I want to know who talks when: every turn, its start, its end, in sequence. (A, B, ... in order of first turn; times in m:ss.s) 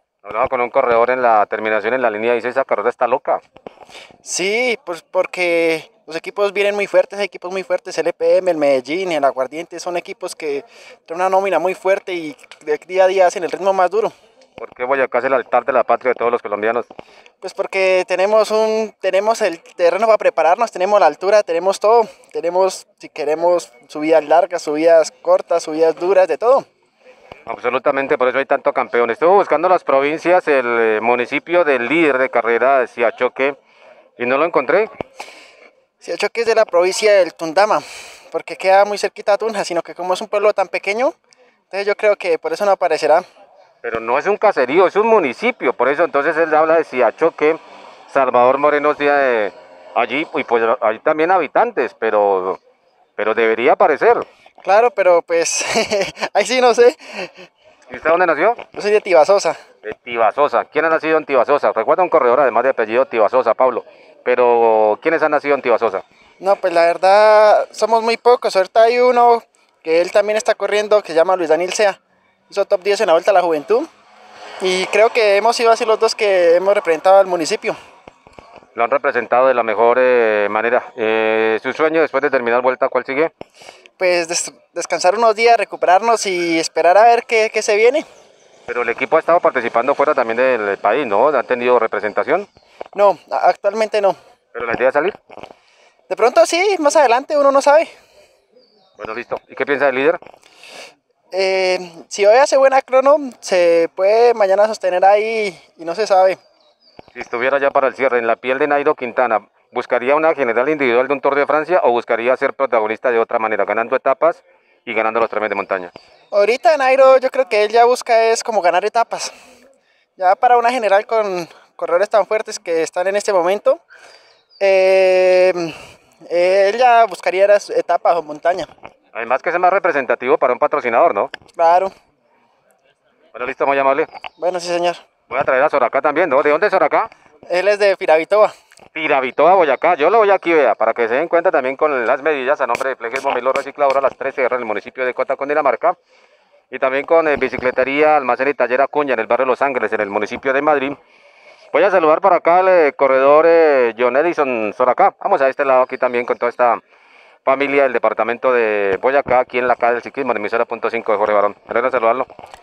0:00.2-0:03.4 A
0:04.2-0:14.1 B
0:14.6-0:16.9 A
0:17.4-0:26.6 B
0:27.5-0:33.6 A
0:34.2-0:34.9 A
0:36.0-0:41.1 B
0:41.7-0:43.2 B
0:43.8-0:47.6 A
0:48.1-0:52.6 A
0:53.2-0:54.3 A
0:54.6-0:57.5 B
0:57.9-0:58.6 A
0:58.7-0:59.6 B
0:59.8-1:06.0 A
1:06.4-1:12.0 B
1:12.5-1:13.9 B
1:14.6-1:17.8 B
1:18.7-1:23.3 A
1:24.0-1:28.0 B
1:28.7-1:32.5 A
1:32.9-1:34.2 B
1:34.5-1:35.2 A
1:36.1-1:37.9 B
1:39.0-1:40.2 A
1:41.3-1:46.4 B
1:47.1-1:55.9 A
1:56.3-1:59.3 B
2:00.2-2:03.8 B
2:04.6-2:05.8 B
2:06.3-2:08.7 B
2:09.1-2:11.3 A
2:11.6-2:11.9 B
2:13.3-2:14.1 A
2:14.4-2:15.0 B
2:15.3-2:17.1 A
2:17.5-2:18.5 B
2:18.9-2:26.0 A
2:26.7-2:31.0 A
2:31.7-2:36.8 A
2:37.4-2:42.3 A